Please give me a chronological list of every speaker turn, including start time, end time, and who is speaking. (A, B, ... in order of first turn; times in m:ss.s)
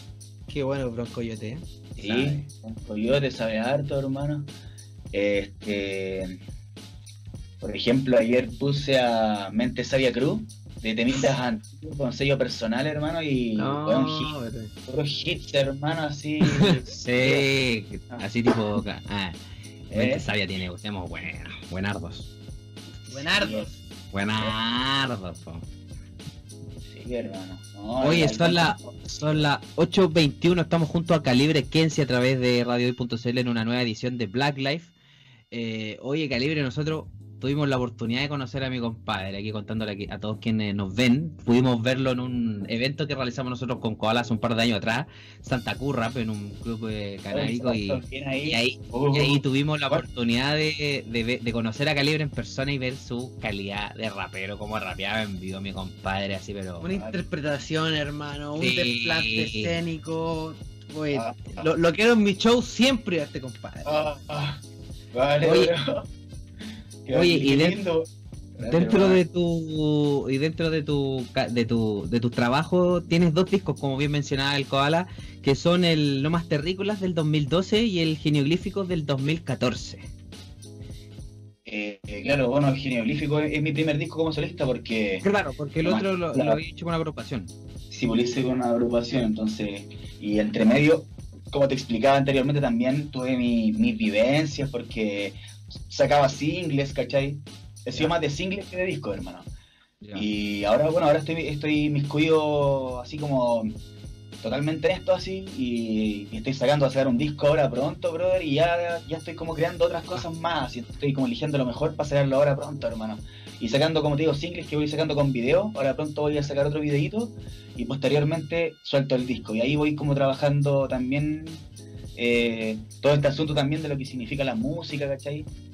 0:00.5-0:02.3 A
0:02.0-0:04.5 B
0:02.0-0:02.3 C
0:05.1-0:06.4 B
0:07.6-0:14.3 B
0:13.6-0:14.7 A
0:14.9-0:17.5 B
0:16.4-0:16.8 A
0:16.9-0:19.4 C
0:19.9-0:20.3 B
0:19.9-0:22.3 C
0:23.1-0:23.8 A
0:23.1-0:23.7 B
0:24.1-0:25.6 C
0:26.8-0:29.4 B
0:28.0-0:34.9 C
0:35.5-0:56.9 C
0:47.3-0:50.0 B
0:56.8-1:03.9 A
0:56.8-0:57.2 B
0:58.6-0:59.7 C
1:01.1-1:01.7 B
1:03.8-1:06.1 B
1:05.4-1:05.7 C
1:07.0-1:09.2 B
1:07.1-1:07.8 C
1:08.7-1:20.0 C
1:21.6-1:25.2 B
1:25.2-1:27.5 C
1:25.8-1:26.6 B
1:27.9-1:39.5 B
1:40.0-1:40.3 C
1:40.1-1:43.7 B
1:44.4-2:05.5 B